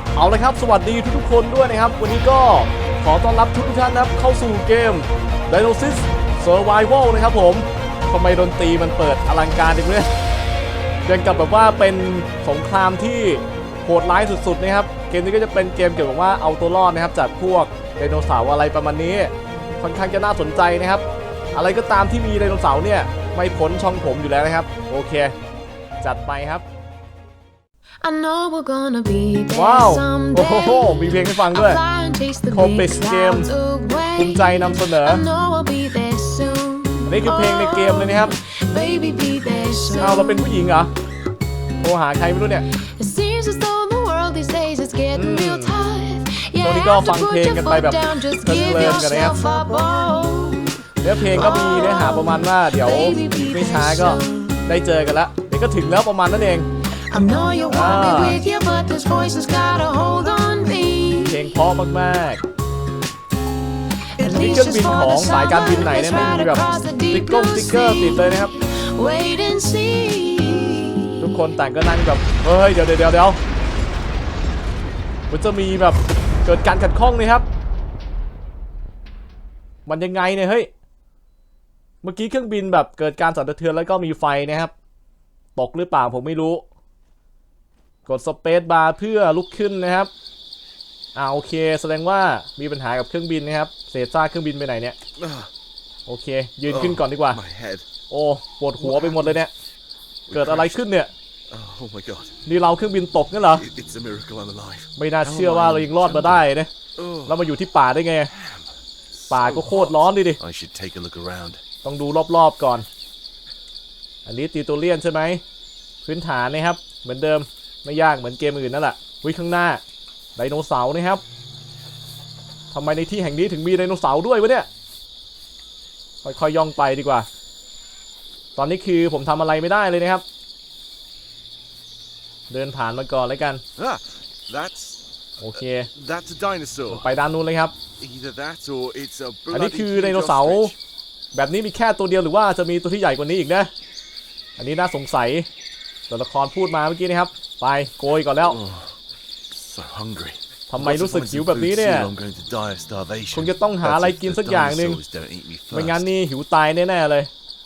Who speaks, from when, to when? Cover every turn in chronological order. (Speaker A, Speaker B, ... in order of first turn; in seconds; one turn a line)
Speaker A: 0.1-10.1
Speaker A: 11.1-25.3
Speaker A: 26.0-26.6
Speaker B: 28.0-40.8
Speaker A: 29.5-31.8
Speaker A: 32.5-33.5
Speaker A: 34.1-35.2
Speaker A: 37.1-38.3
Speaker A: 40.0-40.9
Speaker A: 41.8-42.6
Speaker B: 42.8-54.6
Speaker A: 45.1-45.7
Speaker A: 46.6-49.4
Speaker A: 51.0-56.7
Speaker B: 57.1-61.5
Speaker A: 57.7-58.4
Speaker A: 61.2-62.4
Speaker B: 64.2-71.2
Speaker A: 64.2-68.5
Speaker A: 71.2-73.4
Speaker A: 75.3-77.4
Speaker A: 79.8-80.7
Speaker A: 82.0-84.7
Speaker A: 85.5-86.6
Speaker A: 88.0-90.1
Speaker A: 91.1-95.0
Speaker C: 95.2-95.5
Speaker A: 96.0-97.4
Speaker C: 96.7-97.8
Speaker A: 98.1-99.5
Speaker C: 98.8-99.4
Speaker C: 100.3-100.8
Speaker A: 100.3-101.1
Speaker C: 101.5-102.3
Speaker A: 102.5-103.6
Speaker C: 103.5-107.5
Speaker A: 105.0-106.7
Speaker A: 107.2-108.3
Speaker C: 108.3-111.6
Speaker A: 109.3-110.4
Speaker A: 111.8-112.8
Speaker A: 114.2-115.4
Speaker A: 116.0-119.8
Speaker A: 120.3-121.2
Speaker A: 122.7-124.7
Speaker A: 126.2-127.3
Speaker A: 128.6-130.2
Speaker A: 132.5-133.6
Speaker C: 133.8-135.0
Speaker A: 135.4-135.9
Speaker C: 135.5-137.1
Speaker A: 136.9-137.7
Speaker C: 138.0-140.8
Speaker A: 139.5-140.7
Speaker A: 141.3-143.7
Speaker A: 144.6-145.5
Speaker A: 146.1-148.6
Speaker C: 148.4-149.0
Speaker C: 149.5-156.1
Speaker A: 150.7-152.1
Speaker A: 153.3-155.0
Speaker A: 155.7-157.3